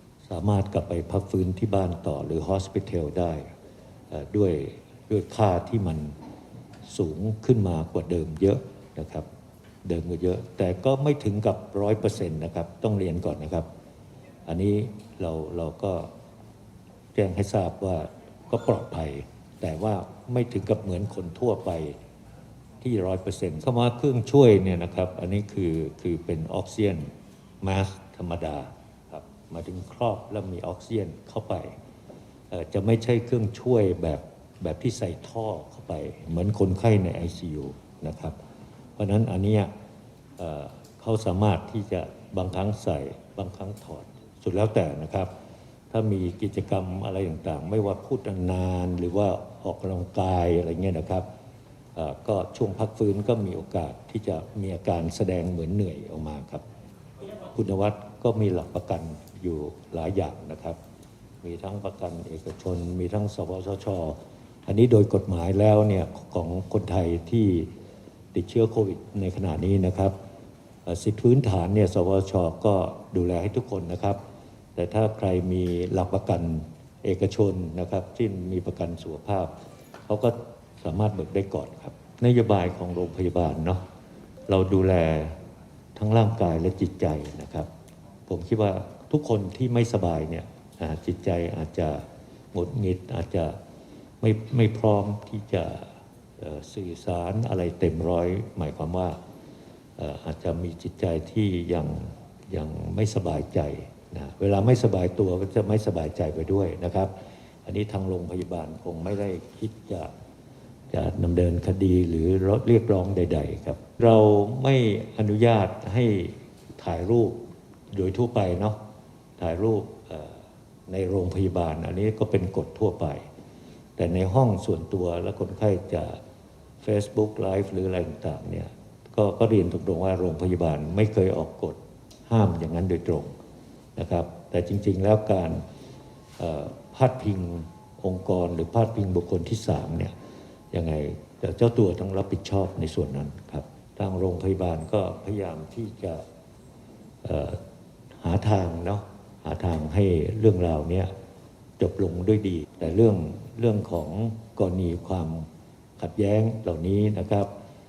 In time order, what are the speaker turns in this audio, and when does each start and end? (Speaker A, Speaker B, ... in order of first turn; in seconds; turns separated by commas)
Speaker A: 0.2-3.5, Speaker A: 4.1-6.1, Speaker A: 6.9-9.3, Speaker A: 9.8-13.7, Speaker A: 14.4-16.1, Speaker A: 17.1-21.9, Speaker A: 22.8-27.1, Speaker A: 27.6-31.8, Speaker A: 32.5-38.4, Speaker A: 39.0-39.7, Speaker A: 40.4-45.3, Speaker A: 45.9-51.2, Speaker A: 52.0-56.6, Speaker A: 57.4-60.8, Speaker A: 61.4-67.7, Speaker A: 68.3-70.1, Speaker A: 70.8-74.2, Speaker A: 74.8-79.5, Speaker A: 80.1-83.8, Speaker A: 84.5-85.4, Speaker A: 86.0-87.7, Speaker A: 88.3-93.6, Speaker A: 94.2-99.2, Speaker A: 100.0-107.1, Speaker A: 107.7-110.1, Speaker A: 110.9-117.4, Speaker A: 117.9-118.8, Speaker A: 119.4-123.2, Speaker A: 124.0-126.2, Speaker A: 126.8-133.3, Speaker A: 134.0-135.6, Speaker A: 136.4-140.1, Speaker A: 140.7-146.2, Speaker A: 147.2-147.6, Speaker A: 148.2-151.1, Speaker A: 151.8-155.5, Speaker A: 156.0-157.5